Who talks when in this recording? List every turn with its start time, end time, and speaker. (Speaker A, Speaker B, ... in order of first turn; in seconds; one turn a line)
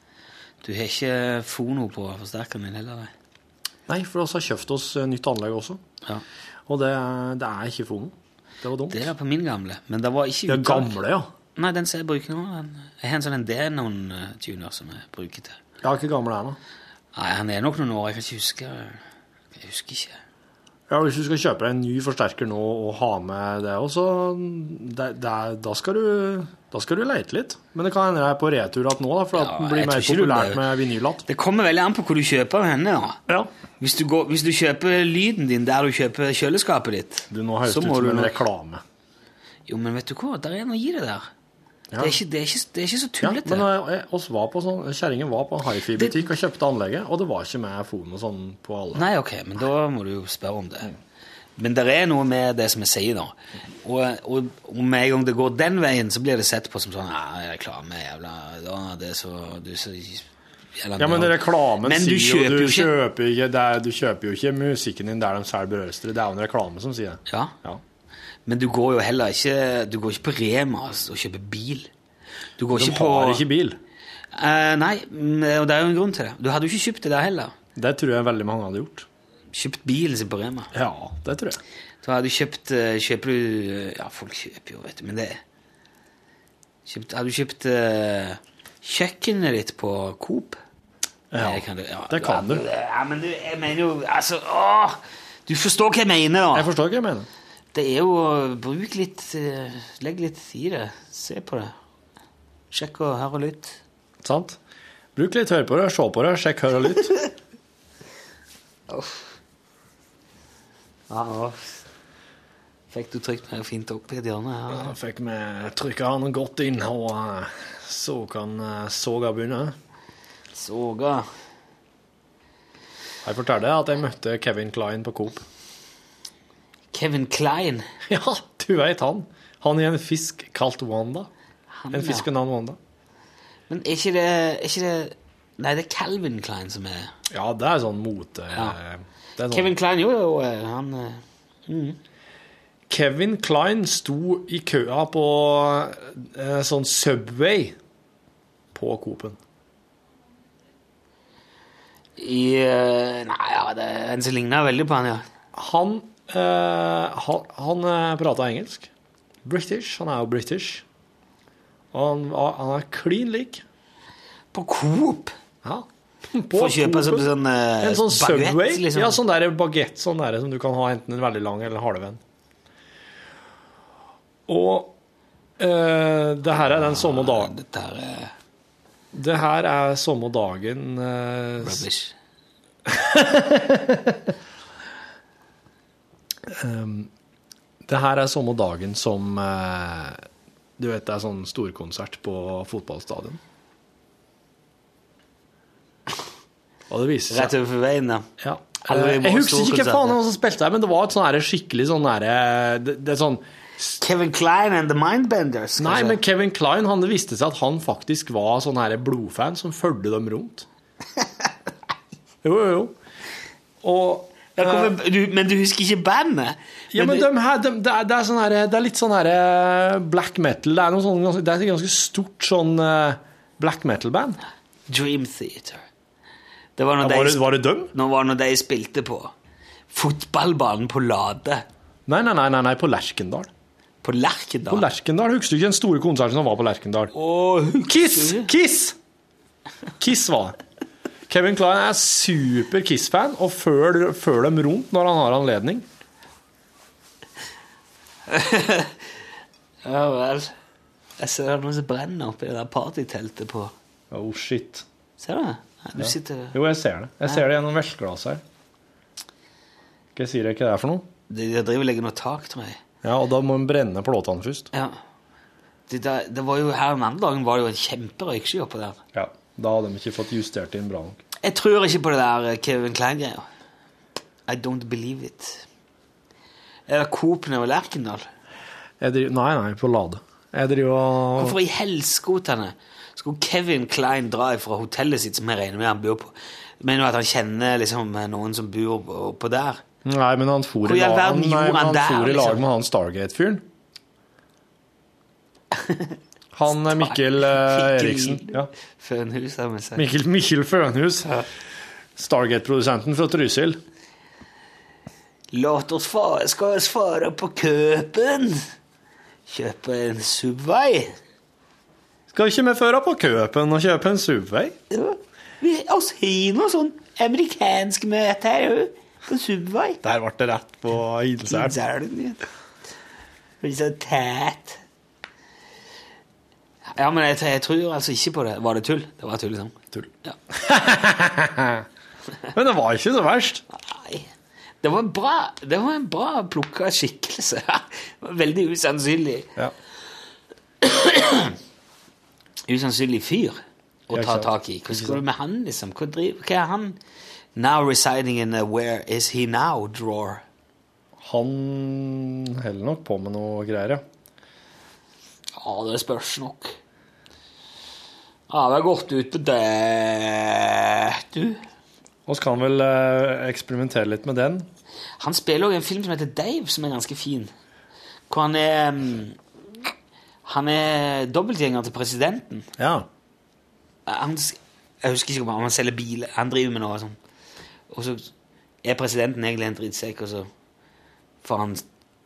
Speaker A: 0.6-3.1
Speaker B: 3.9-5.8
Speaker B: 6.7-9.1
Speaker A: 8.9-11.0
Speaker B: 10.5-11.3
Speaker A: 11.6-15.6
Speaker B: 15.8-16.6
Speaker A: 17.1-19.0
Speaker A: 19.5-20.2
Speaker B: 20.9-31.2
Speaker A: 29.3-30.6
Speaker A: 31.3-33.2
Speaker A: 33.8-38.4
Speaker B: 37.3-38.8
Speaker A: 39.7-41.3
Speaker B: 41.9-42.2
Speaker A: 42.0-43.7
Speaker B: 43.2-49.0
Speaker A: 48.9-50.9
Speaker A: 51.6-60.2
Speaker A: 60.8-62.9
Speaker B: 61.0-67.8
Speaker A: 67.3-67.5
Speaker A: 68.5-71.9
Speaker A: 72.6-73.4
Speaker B: 72.7-73.8
Speaker A: 74.3-77.5
Speaker B: 77.8-79.0
Speaker A: 79.5-80.7
Speaker B: 80.7-81.6
Speaker A: 82.0-85.4
Speaker A: 86.8-90.6
Speaker B: 91.3-92.6
Speaker A: 91.4-96.7
Speaker B: 96.5-97.3
Speaker A: 97.7-101.7
Speaker A: 102.7-103.8
Speaker B: 104.2-104.6
Speaker B: 105.1-107.2
Speaker A: 108.9-109.2
Speaker A: 111.1-111.8
Speaker A: 112.9-114.9
Speaker B: 114.7-119.8
Speaker A: 120.5-121.3
Speaker B: 123.2-125.4
Speaker A: 126.9-127.8
Speaker B: 128.1-131.3
Speaker A: 131.7-132.3
Speaker B: 131.9-132.8
Speaker A: 133.7-137.1
Speaker B: 137.3-139.7
Speaker A: 139.5-142.0
Speaker B: 142.9-147.8
Speaker B: 148.7-149.4
Speaker A: 152.2-155.2
Speaker B: 155.5-158.9
Speaker B: 159.4-160.8
Speaker B: 161.9-163.6
Speaker A: 164.5-165.3
Speaker B: 165.6-167.3
Speaker A: 166.5-169.2
Speaker B: 167.8-172.2
Speaker B: 174.5-174.9
Speaker B: 175.6-177.5
Speaker A: 176.7-178.3
Speaker B: 179.1-181.8
Speaker A: 181.6-182.1
Speaker B: 182.8-184.3
Speaker B: 186.4-187.1
Speaker B: 187.8-190.2
Speaker B: 190.8-193.4
Speaker B: 196.9-197.5
Speaker A: 197.3-198.3
Speaker B: 198.4-204.0
Speaker A: 198.8-200.2
Speaker A: 204.0-206.2
Speaker B: 205.8-210.7
Speaker B: 212.4-212.9
Speaker B: 213.8-214.9
Speaker A: 214.6-217.3
Speaker B: 216.9-224.4
Speaker A: 224.9-225.8
Speaker A: 226.8-229.3
Speaker B: 227.0-227.9
Speaker A: 229.9-231.6
Speaker B: 232.1-233.5
Speaker A: 234.0-234.9
Speaker B: 234.7-237.1
Speaker A: 237.1-238.5
Speaker B: 237.8-239.0
Speaker B: 240.0-240.6
Speaker B: 241.3-245.8
Speaker A: 248.3-249.0
Speaker A: 249.8-250.5
Speaker A: 251.2-253.7
Speaker B: 254.1-254.8
Speaker A: 255.2-256.6
Speaker B: 256.0-258.4
Speaker B: 260.1-261.1
Speaker A: 261.3-262.8
Speaker B: 263.0-264.7
Speaker A: 264.7-265.0
Speaker A: 265.9-269.0
Speaker B: 269.1-271.2
Speaker A: 271.4-273.4
Speaker A: 274.5-275.6
Speaker A: 276.9-278.2
Speaker B: 279.0-281.6
Speaker A: 281.4-289.8
Speaker B: 290.0-293.6
Speaker A: 290.8-292.6
Speaker A: 295.7-296.1
Speaker B: 296.5-298.7
Speaker A: 296.7-300.0
Speaker B: 299.9-301.4
Speaker B: 302.1-303.8
Speaker A: 305.5-308.6
Speaker A: 309.5-311.1
Speaker B: 312.3-314.8
Speaker A: 314.9-320.0
Speaker B: 320.0-321.8
Speaker A: 321.4-322.4
Speaker A: 323.6-324.8
Speaker A: 326.9-330.4
Speaker B: 329.9-331.8
Speaker B: 332.5-333.6
Speaker A: 333.8-334.3
Speaker A: 334.8-339.5
Speaker A: 340.8-341.6
Speaker A: 342.7-347.0
Speaker B: 344.1-345.2
Speaker A: 347.6-350.4
Speaker B: 351.2-354.0
Speaker A: 355.6-356.8
Speaker A: 358.5-361.6
Speaker B: 362.3-364.7
Speaker A: 365.2-367.5
Speaker A: 368.3-369.4
Speaker A: 370.4-372.7
Speaker B: 372.8-373.1
Speaker A: 374.1-377.1
Speaker A: 377.9-378.3
Speaker A: 378.8-380.5
Speaker A: 381.4-381.8